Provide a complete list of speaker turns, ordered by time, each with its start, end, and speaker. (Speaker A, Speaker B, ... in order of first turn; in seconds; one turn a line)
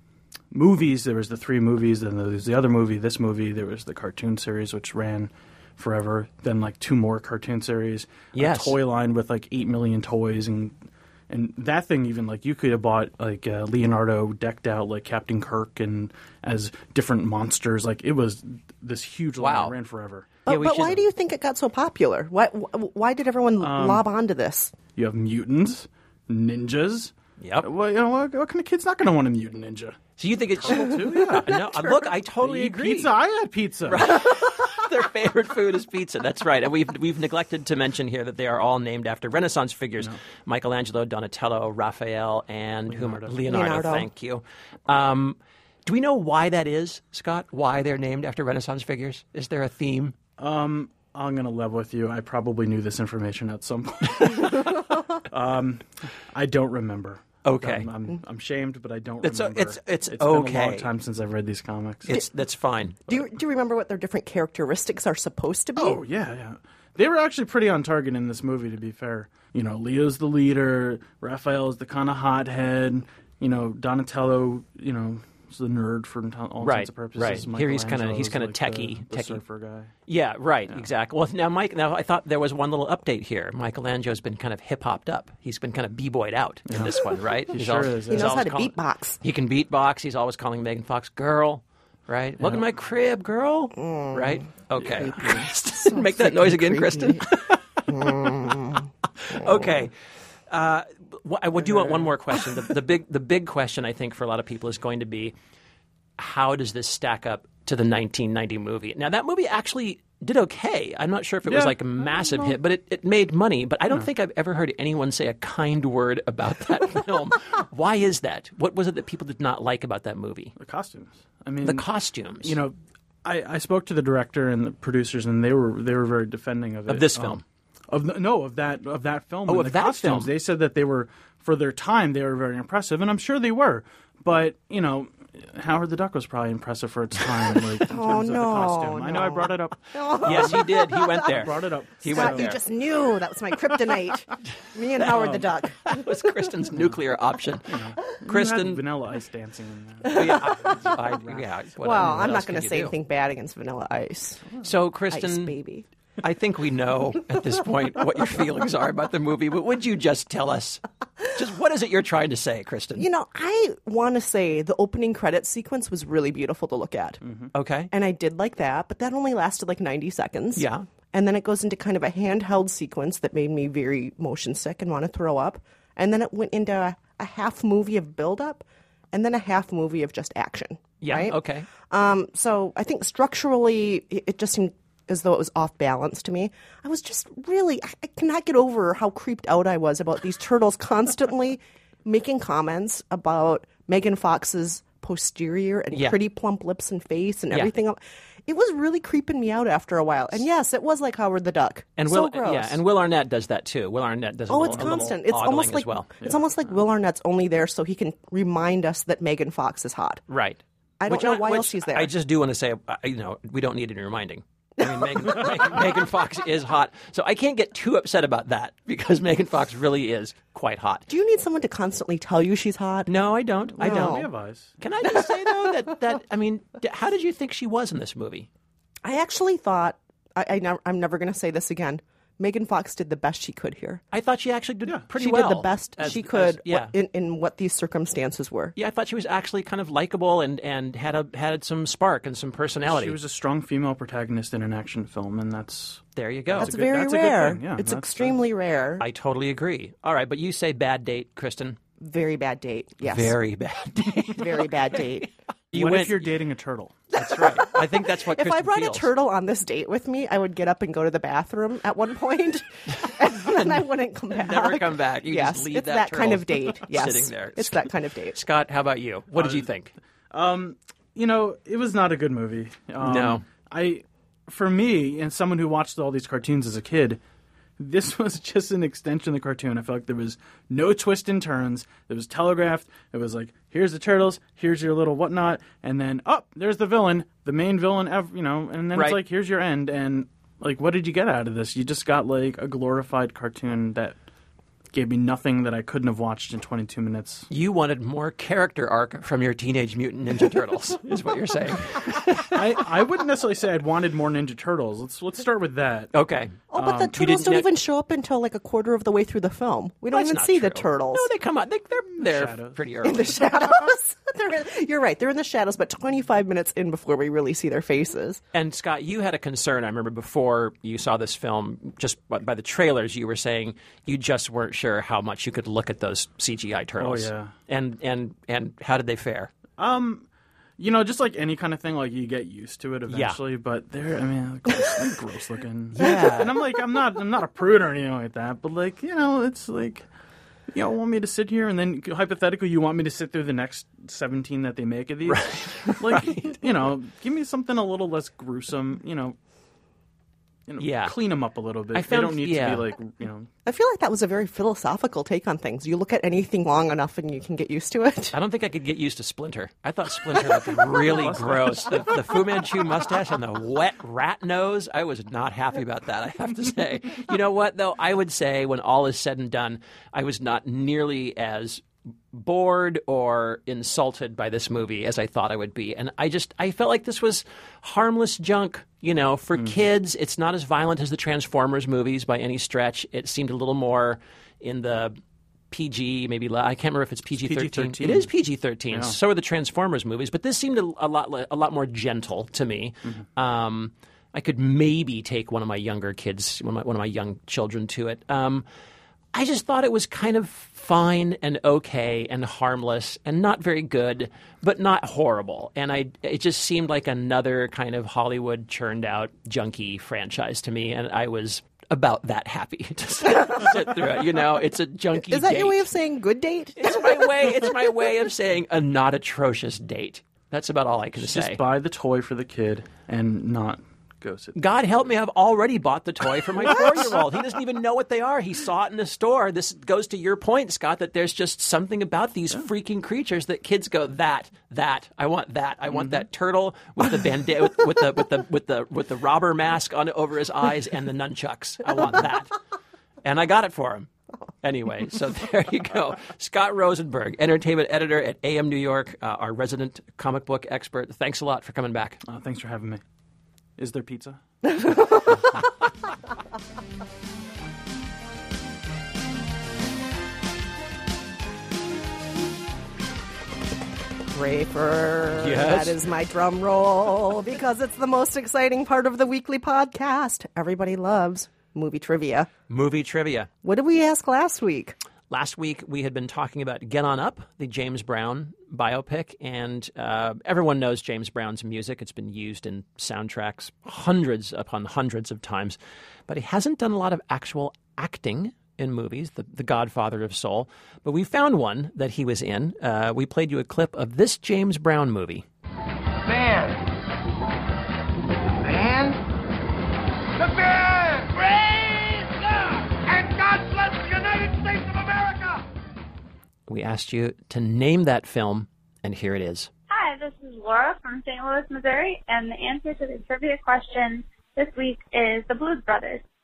Speaker A: 0.5-10.8
Speaker B: 8.3-8.8
Speaker A: 11.3-20.3
Speaker B: 19.4-19.7
Speaker C: 20.4-24.8
Speaker B: 20.5-21.0
Speaker A: 23.6-24.0
Speaker A: 24.9-30.0
Speaker B: 27.4-27.7
Speaker B: 30.2-33.1
Speaker A: 30.6-31.5
Speaker C: 31.4-31.9
Speaker A: 32.4-34.1
Speaker B: 33.9-50.2
Speaker A: 42.9-43.4
Speaker C: 43.5-44.1
Speaker A: 50.4-62.2
Speaker B: 57.4-57.9
Speaker B: 59.2-60.9
Speaker B: 62.1-63.0
Speaker C: 63.1-66.0
Speaker A: 65.8-79.9
Speaker B: 76.6-79.4
Speaker B: 80.1-98.5
Speaker A: 86.7-86.9
Speaker A: 87.5-88.3
Speaker C: 88.1-89.2
Speaker A: 92.4-92.6
Speaker C: 93.8-97.3
Speaker A: 95.0-95.4
Speaker C: 97.9-99.7
Speaker B: 99.2-99.9
Speaker B: 100.5-105.3
Speaker A: 101.6-102.1
Speaker B: 106.2-120.5
Speaker A: 111.5-112.6
Speaker A: 120.6-121.8
Speaker B: 121.6-122.6
Speaker A: 122.4-140.7
Speaker B: 126.9-127.4
Speaker B: 129.5-130.3
Speaker C: 137.9-141.4
Speaker B: 140.2-142.6
Speaker A: 141.2-142.5
Speaker C: 142.1-146.2
Speaker A: 145.1-145.5
Speaker B: 145.8-147.7
Speaker A: 147.7-151.5
Speaker B: 148.2-148.8
Speaker C: 150.1-150.7
Speaker B: 150.1-152.9
Speaker C: 151.8-154.5
Speaker B: 154.6-155.6
Speaker C: 155.1-155.9
Speaker B: 156.2-163.1
Speaker C: 163.0-167.2
Speaker A: 167.2-167.5
Speaker B: 167.5-167.9
Speaker C: 167.9-202.8
Speaker B: 170.6-170.8
Speaker B: 181.0-181.7
Speaker B: 195.9-196.2
Speaker B: 202.0-206.1
Speaker C: 204.5-210.2
Speaker A: 204.7-205.1
Speaker B: 210.3-221.1
Speaker C: 211.0-212.1
Speaker C: 214.8-215.5
Speaker C: 221.1-223.1
Speaker B: 223.1-224.3
Speaker A: 223.7-224.7
Speaker C: 223.8-224.3
Speaker B: 224.8-228.5
Speaker C: 225.0-225.9
Speaker C: 229.0-234.0
Speaker B: 234.1-236.9
Speaker C: 235.2-238.7
Speaker B: 238.8-243.2
Speaker A: 242.8-248.4
Speaker B: 246.2-246.7
Speaker C: 246.6-249.0
Speaker B: 249.0-251.8
Speaker C: 252.0-253.4
Speaker B: 253.0-255.0
Speaker C: 254.3-255.3
Speaker B: 255.7-256.2
Speaker A: 255.7-256.9
Speaker B: 257.1-259.1
Speaker C: 257.1-268.4
Speaker B: 264.4-269.9
Speaker A: 269.3-269.7
Speaker A: 270.3-277.2
Speaker B: 273.0-273.4
Speaker A: 277.8-294.1
Speaker B: 288.9-289.2
Speaker A: 294.9-297.5
Speaker B: 297.5-302.6
Speaker A: 302.4-306.1
Speaker B: 306.1-307.7
Speaker C: 306.7-311.3
Speaker A: 306.8-307.1
Speaker B: 310.1-313.4
Speaker A: 312.2-312.8
Speaker C: 313.0-318.4
Speaker B: 318.5-329.5
Speaker A: 327.0-327.5
Speaker A: 329.8-330.2
Speaker A: 330.8-340.1
Speaker B: 333.1-333.4
Speaker B: 335.9-336.5
Speaker A: 340.7-349.4
Speaker B: 345.3-346.6
Speaker A: 350.7-353.5
Speaker B: 350.8-351.1
Speaker B: 351.9-352.9
Speaker C: 353.6-358.4
Speaker B: 358.3-385.2
Speaker A: 361.0-362.1
Speaker B: 385.7-398.6
Speaker A: 387.3-388.3
Speaker A: 388.9-389.2
Speaker B: 399.3-415.8
Speaker C: 415.2-417.5
Speaker B: 416.8-421.6
Speaker A: 421.2-424.6
Speaker B: 424.5-442.6
Speaker A: 426.6-427.0
Speaker A: 435.9-436.2
Speaker B: 443.2-444.1
Speaker B: 444.6-452.2
Speaker A: 452.3-453.0
Speaker A: 453.8-454.4
Speaker C: 464.3-472.5
Speaker B: 465.4-466.0
Speaker B: 472.7-473.5
Speaker C: 473.6-475.0
Speaker B: 475.3-495.4
Speaker D: 496.3-496.8
Speaker D: 498.6-499.2
Speaker D: 500.4-505.6
Speaker B: 506.7-509.7
Speaker E: 509.9-516.2